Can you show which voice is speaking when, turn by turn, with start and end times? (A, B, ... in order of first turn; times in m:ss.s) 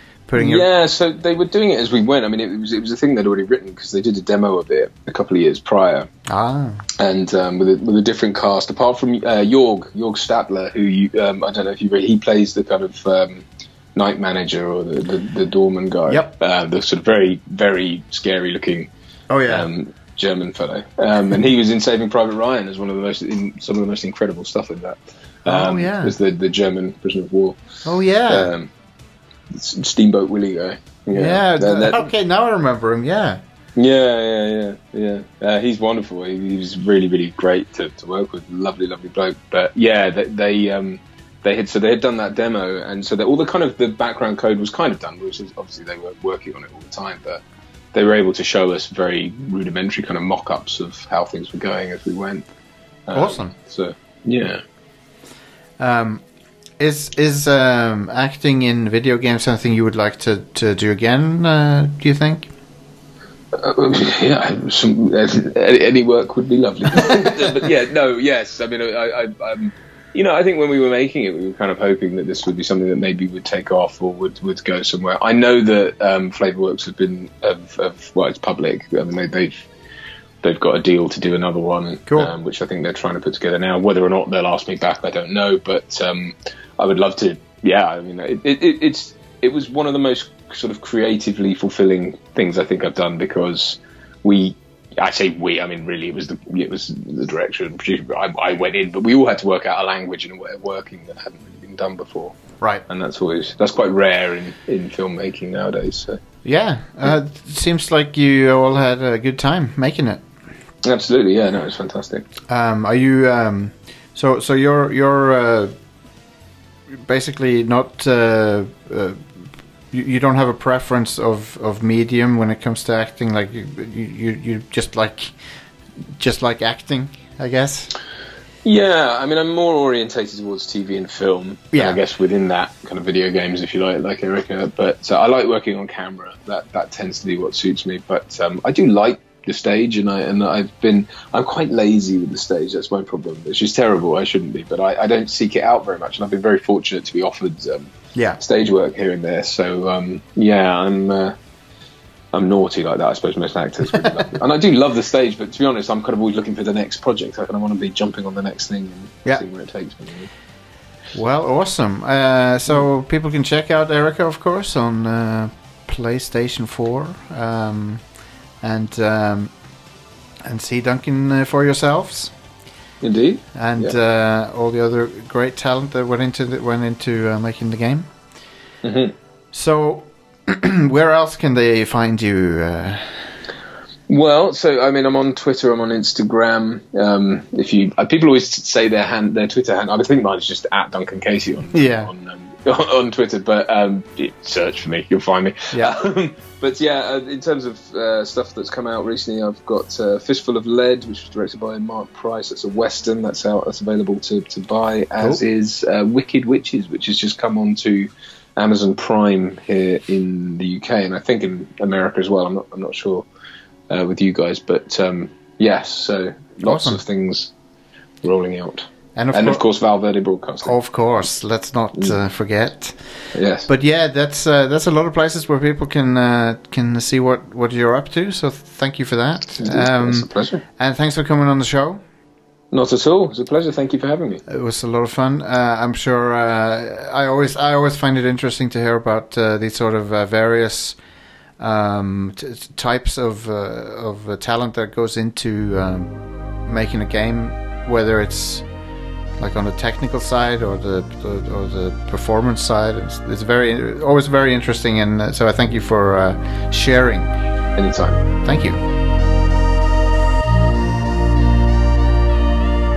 0:00.3-0:00.7 A
0:00.4-0:06.1 B
0:06.3-0:06.8 A
0:07.0-0:18.9 B
0:16.1-0:16.3 A
0:19.3-0:19.7 A
0:19.5-0:27.6 B
0:25.5-0:26.1 A
0:27.8-0:28.5 A
0:28.3-0:28.7 B
0:29.5-0:32.0 B
0:31.1-0:33.4 A
0:33.8-0:47.4 B
0:47.9-0:52.4 B
0:53.1-0:54.6 B
0:53.1-0:53.5 A
0:55.8-0:56.2 A
0:56.8-1:02.5 A
1:03.5-1:19.6 B
1:20.4-1:42.4 B
1:42.9-1:46.2 B
1:46.4-1:50.2 A
1:50.8-1:52.3 B
1:52.5-1:55.7 A
1:56.9-1:59.2 A
1:59.9-2:05.3 A
2:06.2-2:07.9 A
2:08.6-2:31.3 B
2:11.7-2:12.0 A
2:28.1-2:28.4 A
2:32.3-2:40.3 B
2:41.1-2:48.0 A
2:48.6-2:49.5 A
2:50.4-2:52.3 A
2:53.0-2:53.9 B
2:53.5-2:58.1 A
2:58.8-2:59.1 B
2:59.5-3:03.3 A
3:04.1-3:33.2 B
3:11.7-3:12.1 A
3:33.9-3:37.5 B
3:36.6-3:37.0 A
3:38.2-3:40.7 B
3:39.2-3:39.6 A
3:40.6-3:43.1 A
3:43.3-3:43.7 B
3:43.7-3:52.0 A
3:49.6-3:50.6 B
3:52.7-3:54.4 B
3:54.5-4:01.0 A
4:01.6-4:06.1 A
4:06.6-4:08.6 A
4:09.4-4:17.3 A
4:17.8-4:18.2 B
4:18.4-4:18.8 A